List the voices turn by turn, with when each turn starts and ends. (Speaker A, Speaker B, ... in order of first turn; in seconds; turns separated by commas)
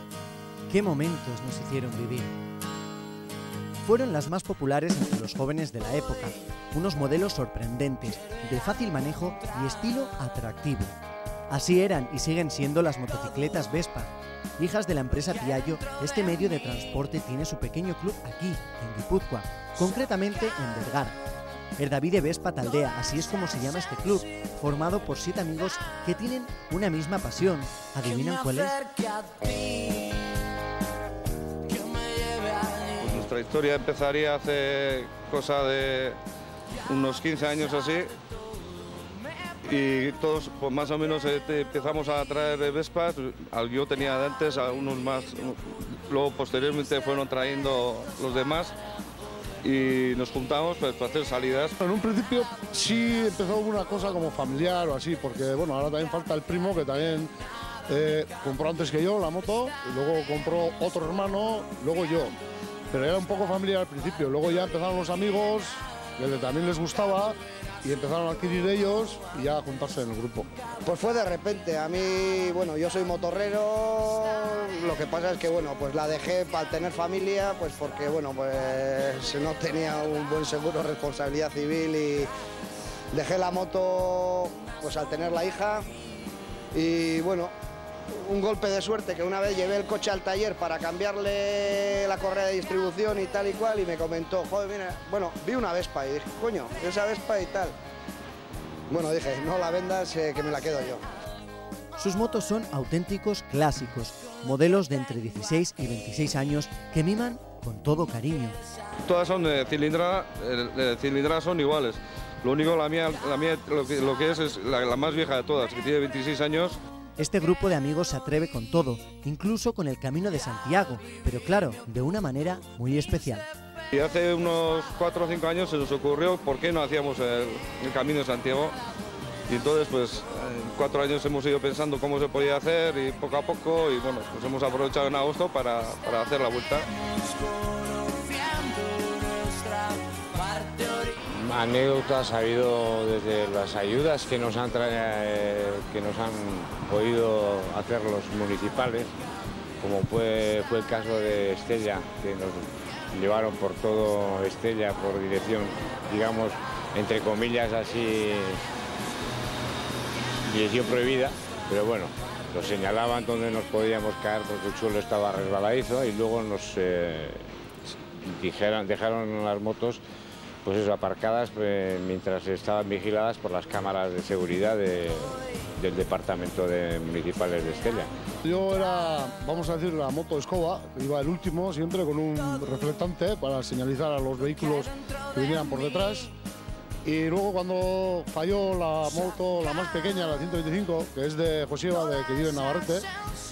Speaker A: 0.7-2.4, Speaker A: 3.8-10.9, Speaker A: 11.5-21.2, Speaker A: 21.8-28.8, Speaker B: 32.9-36.2, Speaker B: 36.8-38.1, Speaker B: 39.6-48.7, Speaker B: 49.6-51.7, Speaker C: 51.8-57.3, Speaker C: 57.9-62.4, Speaker C: 62.9-70.5, Speaker D: 70.8-82.3, Speaker D: 83.1-85.9, Speaker D: 86.7-87.5, Speaker D: 88.2-97.7, Speaker D: 98.9-101.0, Speaker A: 102.0-108.6, Speaker B: 109.0-116.8, Speaker A: 117.2-123.5, Speaker B: 123.9-128.8, Speaker B: 129.5-136.9, Speaker E: 141.2-149.1, Speaker E: 149.8-158.6, Speaker E: 160.4-167.5, Speaker E: 168.2-170.0, Speaker E: 170.6-178.1, Speaker C: 178.4-186.3, Speaker C: 187.0-193.1